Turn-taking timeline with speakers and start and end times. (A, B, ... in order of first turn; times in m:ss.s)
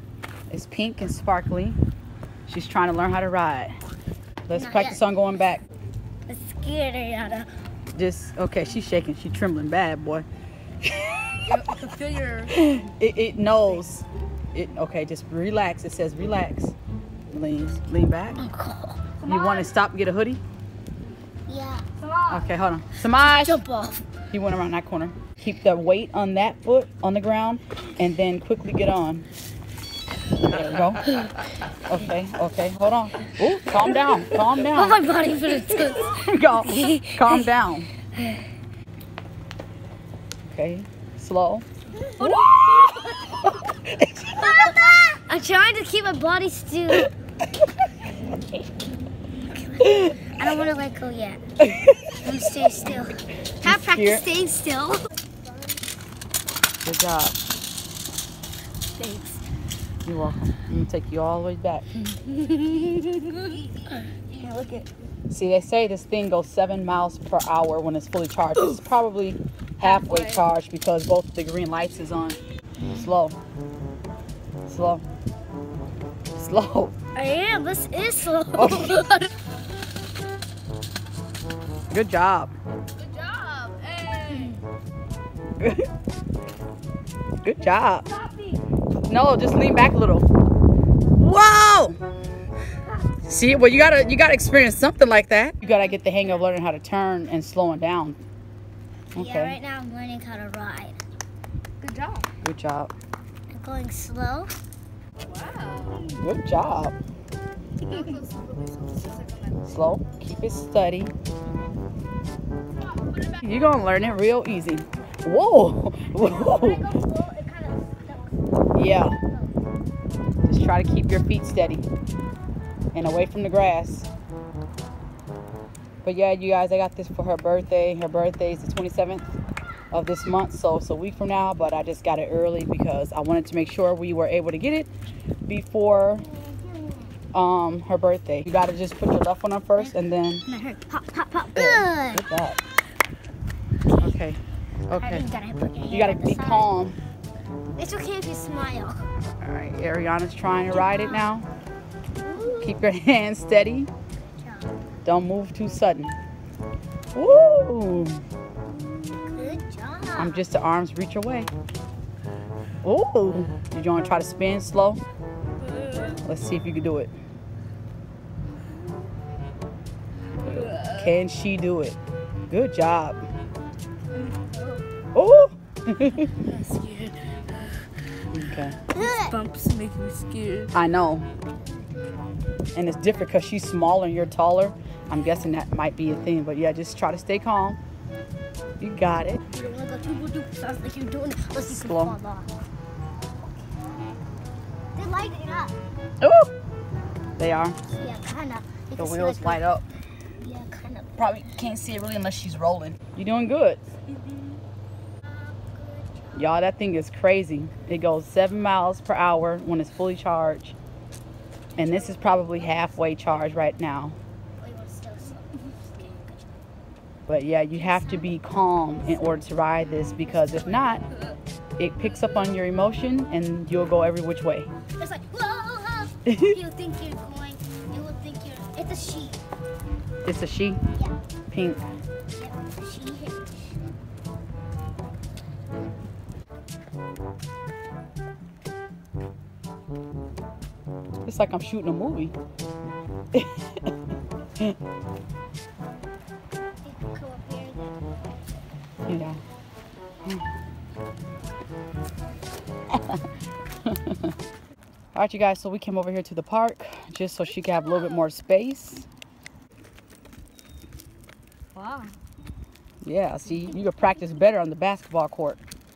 0:00.5-0:01.8 A
0:02.5-0:03.7 A
0:04.5-0:05.6 A
0:04.5-0:05.1 B
0:06.2-0:07.5 B
0:07.9-0:10.2 A
0:10.8-0:11.5 A
0:11.4-0:12.5 C
0:12.5-0:16.7 A
0:17.3-0:18.4 A
0:18.4-0:19.7 B
0:19.2-0:20.4 A
0:21.5-0:24.1 B
0:22.3-0:23.6 A
0:24.3-0:29.2 A
0:30.4-0:31.0 A
0:31.0-0:31.4 B
0:31.8-0:35.0 A
0:33.5-0:37.5 B
0:35.9-0:37.9 A
0:38.1-0:38.5 B
0:40.5-0:41.6 A
0:42.0-0:43.5 B
0:42.2-0:42.6 A
0:43.2-0:44.7 A
0:44.2-0:47.1 B
0:49.3-0:51.4 B
0:49.8-0:50.2 A
0:51.6-0:52.6 A
0:52.2-0:55.1 B
0:53.6-0:54.2 A
0:56.8-0:57.4 A
0:59.0-0:59.4 B
1:00.0-1:01.8 A
1:02.0-1:04.9 B
1:05.3-1:12.4 A
1:09.8-1:10.4 B
1:12.8-1:13.1 B
1:12.9-1:13.4 A
1:14.6-1:15.0 A
1:16.3-1:16.9 A
1:17.1-1:19.3 B
1:18.5-1:19.2 A
1:21.9-1:22.5 A
1:23.0-1:24.5 C
1:24.2-1:24.6 B
1:25.6-1:25.9 A
1:27.4-1:28.0 A
1:28.1-1:28.6 B
1:29.1-1:30.3 A
1:31.2-1:32.0 A
1:33.2-1:38.2 A
1:35.6-1:36.4 B
1:39.1-1:41.0 B
1:39.1-1:39.6 A
1:41.8-1:42.3 B
1:42.4-1:42.9 A
1:43.5-1:44.6 B
1:45.2-1:46.0 C
1:46.1-1:46.9 A
1:47.8-1:49.7 C
1:47.8-1:48.2 B
1:49.7-1:51.1 A
1:53.3-1:57.0 A
1:56.1-1:59.6 B
1:58.7-1:59.2 A
2:00.4-2:01.8 A
2:02.9-2:04.1 A
2:06.0-2:09.3 A
2:09.9-2:14.9 A
2:15.5-2:16.2 A
2:16.3-2:17.1 B
2:17.3-2:20.4 A
2:19.7-2:22.3 B
2:21.6-2:22.6 A
2:23.8-2:24.2 B
2:24.0-2:25.3 A
2:24.9-2:26.7 B
2:25.9-2:27.0 A
2:27.8-2:29.1 B
2:29.2-2:31.5 A
2:30.7-2:31.3 B
2:32.2-2:32.8 B
2:32.6-2:33.9 A
2:34.3-2:34.7 B
2:35.0-2:36.1 A
2:37.1-2:38.2 A
2:39.0-2:39.6 A
2:39.3-2:40.4 B
2:40.1-2:41.5 A
2:42.8-2:45.0 A
2:45.7-2:46.2 B
2:46.2-2:47.1 A
2:50.6-2:51.0 B
2:50.8-2:52.0 A
2:52.5-2:53.2 A
2:54.3-2:54.8 B
2:55.1-2:56.4 A
2:56.4-2:57.8 C
2:58.3-2:58.8 A
2:58.9-3:00.7 C
2:58.9-2:59.4 B
3:00.7-3:01.3 A
3:02.7-3:07.8 A
3:08.8-3:09.4 A
3:09.5-3:12.5 B
3:11.6-3:12.2 A
3:14.9-3:15.8 B
3:16.2-3:16.5 A
3:17.4-3:17.8 A
3:17.9-3:19.6 B
3:19.0-3:19.8 A
3:20.4-3:21.6 B
3:21.2-3:23.8 A
3:25.2-3:26.6 B
3:26.4-3:30.7 A
3:31.7-3:33.1 B
3:31.8-3:34.2 A
3:34.6-3:36.5 B
3:37.3-3:41.0 A
3:37.7-3:39.4 B
3:40.2-3:41.2 B
3:41.8-3:44.7 A
3:45.0-3:49.4 B
3:46.2-3:46.6 A
3:50.2-3:50.8 A
3:51.5-3:51.8 A
3:52.3-3:53.8 B
4:01.2-4:02.3 A
4:03.3-4:03.9 A
4:06.8-4:08.4 B
4:09.1-4:09.4 A
4:12.9-4:13.3 A
4:13.8-4:14.3 A
4:15.1-4:19.1 A
4:18.0-4:18.2 B
4:21.8-4:22.1 B
4:23.0-4:25.6 A